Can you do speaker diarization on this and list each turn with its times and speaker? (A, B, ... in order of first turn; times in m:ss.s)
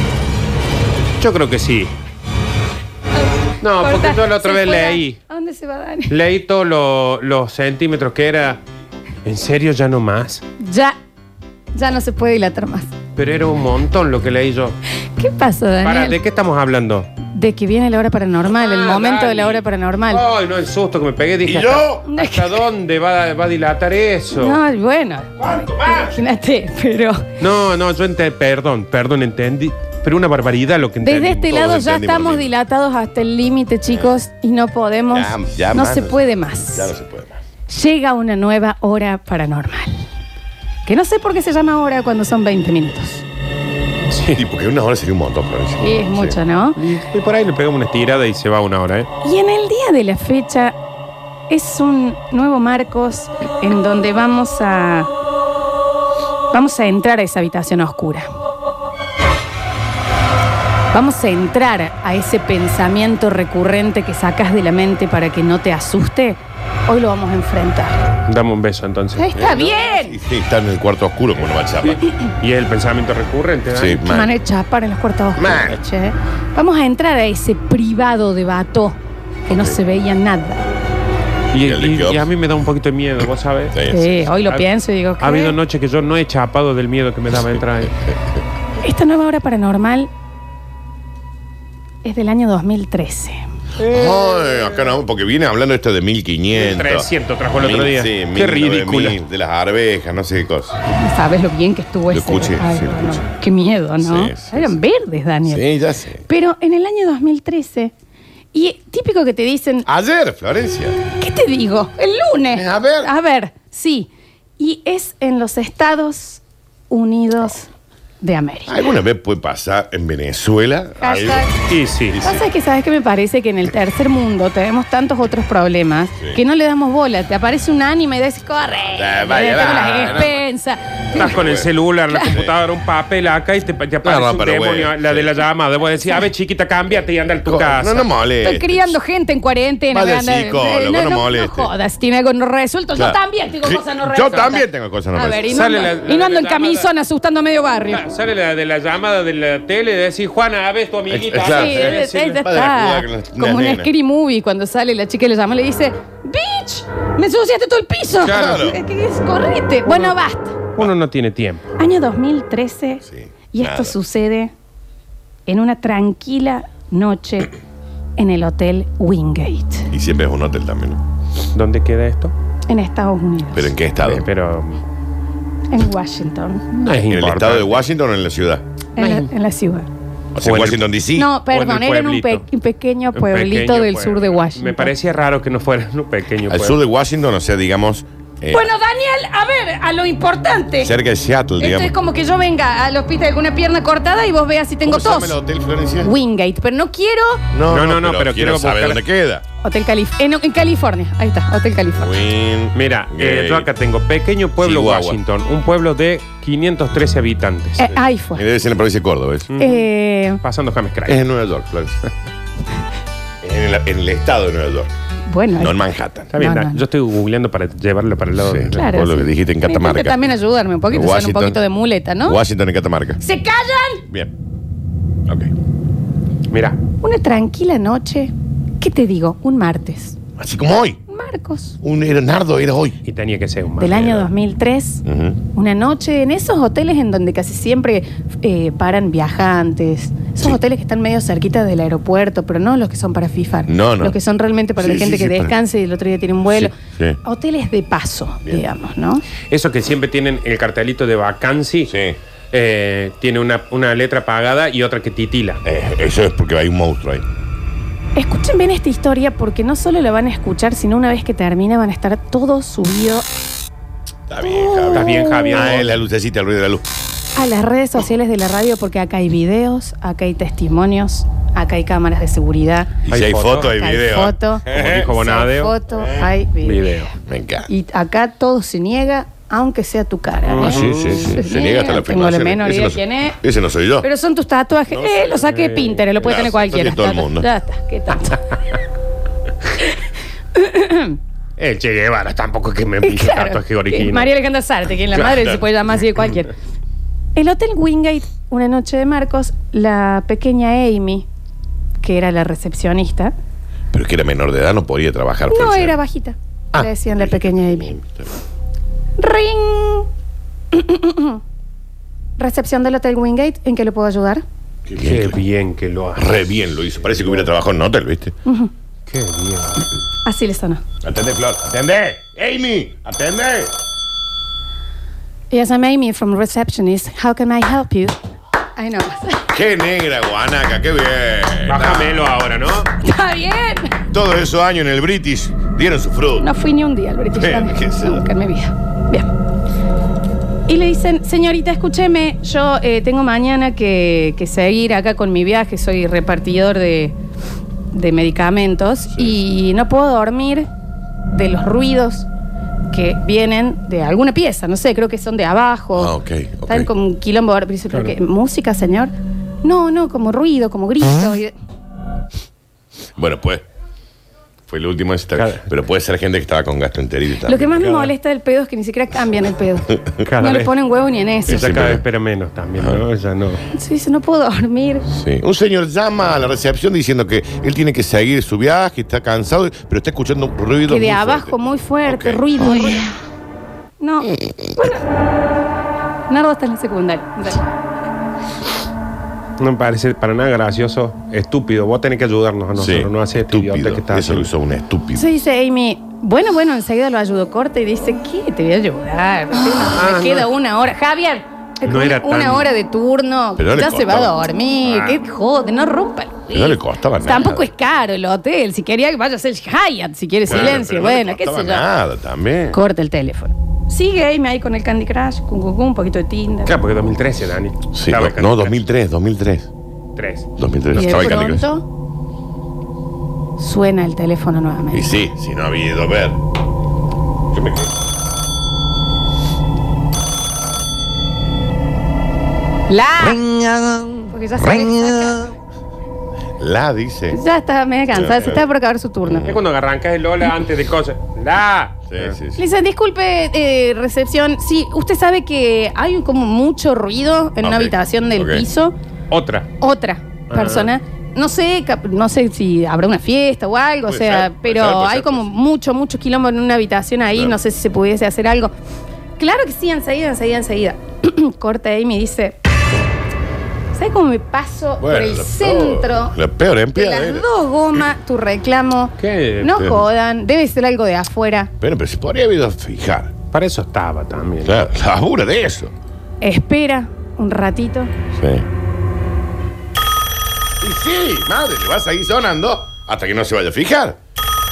0:01.2-0:01.9 A
0:03.2-0:06.1 B
0:03.6-0:05.2 A
0:06.1-0:08.6 A
0:09.2-0:10.4 A
0:10.6-0:11.0 B
0:11.8-0:12.9 B
0:13.2-0:14.8 A
0:15.0-0:16.2 B
0:15.8-0:17.1 A
0:17.3-0:20.2 B
0:18.5-0:24.6 A
0:21.4-0:22.6 C
0:22.0-0:22.5 B
0:24.3-0:27.3 B
0:25.4-0:26.2 C
0:27.4-0:31.7 A
0:31.0-0:36.9 B
0:31.5-0:32.5 C
0:33.9-0:34.1 C
0:35.1-0:36.2 C
0:36.7-0:37.4 C
0:37.7-0:40.1 B
0:40.8-0:43.2 B
0:44.1-0:44.4 A
0:44.3-0:46.4 C
0:45.8-0:46.8 B
0:46.8-0:49.1 A
0:49.2-0:50.8 B
0:51.5-0:55.1 B
0:56.5-0:58.3 B
1:00.9-1:08.0 B
1:08.3-1:09.3 A
1:09.2-1:10.2 B
1:09.3-1:12.0 C
1:11.8-1:14.0 A
1:13.7-1:14.3 C
1:14.1-1:20.6 B
1:15.4-1:15.8 C
1:19.5-1:19.8 C
1:21.5-1:24.7 A
1:21.6-1:22.3 C
1:23.7-1:24.1 C
1:23.9-1:25.6 B
1:25.2-1:28.0 A
1:28.8-1:30.1 B
1:32.0-1:33.4 B
1:33.8-1:34.9 A
1:33.8-1:40.8 C
1:36.5-1:39.2 A
1:40.9-1:45.6 B
1:42.1-1:43.2 C
1:44.0-1:44.8 C
1:45.4-1:46.2 C
1:46.2-1:47.9 B
1:48.5-1:49.9 B
1:49.8-1:51.0 C
1:51.2-1:57.7 B
1:52.5-1:53.1 C
1:58.2-1:58.9 B
1:58.7-2:01.4 C
2:01.0-2:01.5 B
2:01.6-2:02.2 A
2:02.1-2:02.4 C
2:02.2-2:11.4 B
2:08.9-2:10.4 C
2:11.1-2:11.7 C
2:11.1-2:18.0 A
2:12.1-2:12.4 B
2:14.0-2:15.3 C
2:17.4-2:19.0 C
2:18.4-2:28.0 B
2:19.9-2:21.7 C
2:22.9-2:25.6 C
2:25.5-2:26.9 A
2:27.9-2:32.4 A
2:31.1-2:33.9 C
2:31.4-2:40.6 B
2:38.2-2:38.8 C
2:38.2-2:38.7 A
2:39.9-2:40.1 A
2:40.8-2:41.7 A
2:41.8-2:44.5 B
2:43.1-2:43.9 C
2:45.5-2:47.5 B
2:48.2-2:49.9 B
2:49.9-2:51.0 C
2:51.5-2:52.3 A
2:52.7-2:53.7 B
2:53.5-2:54.3 C
2:54.0-2:54.8 A
2:55.7-2:56.7 B
2:56.7-2:57.8 A
2:56.9-2:58.6 C
2:59.0-2:59.9 B
2:59.0-2:59.3 A
3:00.3-3:01.3 C
3:00.4-3:00.8 A
3:01.2-3:04.9 B
3:01.4-3:02.4 A
3:03.1-3:06.8 A
3:06.5-3:08.7 C
3:08.5-3:10.9 B
3:10.8-3:11.9 C
3:11.6-3:15.4 B
3:14.8-3:16.1 C
3:16.0-3:17.4 B
3:17.5-3:19.4 C
3:17.7-3:19.0 A
3:19.6-3:22.1 B
3:22.0-3:23.7 C
3:22.7-3:27.8 A
3:24.6-3:25.2 C
3:27.8-3:28.4 B
3:27.8-3:29.6 C
3:29.5-3:29.9 A
3:29.6-3:30.4 B
3:30.4-3:31.2 A
3:31.0-3:32.0 C
3:33.4-3:34.9 C
3:35.3-3:35.8 B
3:35.6-3:36.3 C
3:36.3-3:39.0 A
3:36.4-3:36.8 B
3:38.4-3:40.2 C
3:38.7-3:42.4 B
3:40.9-3:41.6 C
3:42.2-3:43.2 C
3:43.2-3:44.0 B
3:45.3-3:45.5 C
3:46.5-3:46.8 A
3:47.0-3:50.2 B
3:50.4-3:51.0 C
3:51.1-3:51.8 B
3:51.8-3:53.0 C
3:53.0-3:54.3 A
3:53.8-3:55.0 B
3:55.0-3:55.4 C
3:55.5-4:09.2 B
4:03.7-4:04.2 C
4:04.8-4:05.5 C
4:06.5-4:07.2 C
4:09.5-4:11.9 A
4:11.9-4:12.2 C
4:12.5-4:15.6 A
4:15.6-4:17.2 C
4:18.2-4:23.3 B
4:24.3-4:26.8 C
4:24.4-4:25.8 B
4:24.9-4:25.9 A
4:27.4-4:33.0 B
4:33.0-4:35.1 C
4:33.1-4:33.7 A
4:33.6-4:37.0 B
4:34.7-4:35.7 A
4:35.9-4:36.3 C
4:36.6-4:37.1 A
4:37.2-4:37.7 C
4:37.7-4:43.4 B
4:40.5-4:41.3 A
4:40.6-4:44.1 C
4:44.0-4:48.5 B
4:44.9-4:45.4 C
4:45.4-4:46.1 A
4:46.2-4:47.5 C
4:50.5-4:51.2 B
4:51.6-4:54.3 A
4:53.0-4:56.5 B
4:55.2-4:55.6 C
4:57.3-5:01.3 B
5:02.0-5:03.3 B
5:03.9-5:06.0 C
5:05.5-5:07.9 B
5:06.7-5:08.3 C
5:09.2-5:10.1 B
5:10.7-5:11.4 B
5:12.4-5:14.4 B
5:14.9-5:15.4 C
5:15.0-5:16.4 A
5:16.2-5:18.4 C
5:18.4-5:18.7 B
5:19.1-5:19.8 A
5:20.2-5:20.8 B
5:21.0-5:23.7 C
5:25.5-5:28.2 B
5:28.8-5:29.5 B
5:29.5-5:32.3 C
5:31.7-5:32.9 A
5:33.0-5:34.0 B
5:34.1-5:36.5 C
5:36.4-5:39.3 B
5:37.3-5:38.2 C
5:40.7-5:47.2 B
5:47.9-5:50.7 B
5:51.3-5:52.3 B
5:52.9-5:56.1 B
5:55.9-5:56.9 C
5:56.6-6:01.5 B
6:03.2-6:03.6 C
6:04.7-6:07.7 C
6:05.4-6:05.6 A
6:07.4-6:11.7 B
6:07.7-6:08.1 A
6:09.9-6:10.2 C
6:10.2-6:10.7 A
6:11.4-6:13.6 A
6:11.5-6:12.0 C
6:12.8-6:13.0 C
6:13.7-6:15.1 B
6:15.1-6:23.1 C
6:20.9-6:23.1 B
6:24.0-6:25.0 B
6:24.4-6:24.9 C
6:26.3-6:27.7 B
6:29.6-6:34.5 A
6:32.8-6:35.3 C
6:35.1-6:51.9 B
6:39.7-6:40.5 A
6:41.8-6:42.7 A
6:43.6-6:44.4 C
6:44.8-6:45.2 A
6:46.5-6:47.7 C
6:50.4-6:52.8 C
6:50.5-6:50.9 A
6:52.7-6:56.8 B
6:56.6-6:58.8 A
6:57.9-6:59.7 C
7:00.2-7:00.5 A
7:00.6-7:01.6 C
7:00.9-7:01.8 B
7:03.6-7:05.1 B
7:04.9-7:06.4 C
7:07.5-7:07.9 C
7:12.9-7:15.5 B
7:16.6-7:17.4 C
7:17.3-7:19.5 B
7:18.1-7:18.6 C
7:19.2-7:19.6 C
7:19.4-7:22.3 A
7:22.1-7:22.6 C
7:22.6-7:28.9 B
7:27.6-7:28.6 C
7:29.3-7:29.7 A
7:29.8-7:38.7 B
7:30.5-7:30.9 A
7:34.1-7:35.6 C
7:39.4-7:42.6 B
7:43.9-7:46.4 B
7:45.0-7:47.5 C
7:46.9-7:51.7 B
7:49.2-7:49.8 A
7:49.7-7:50.0 C
7:51.8-7:53.3 C
7:53.5-7:54.8 A
7:54.6-7:55.9 C
7:56.4-7:58.1 B
7:58.3-7:58.6 C
8:00.8-8:04.2 C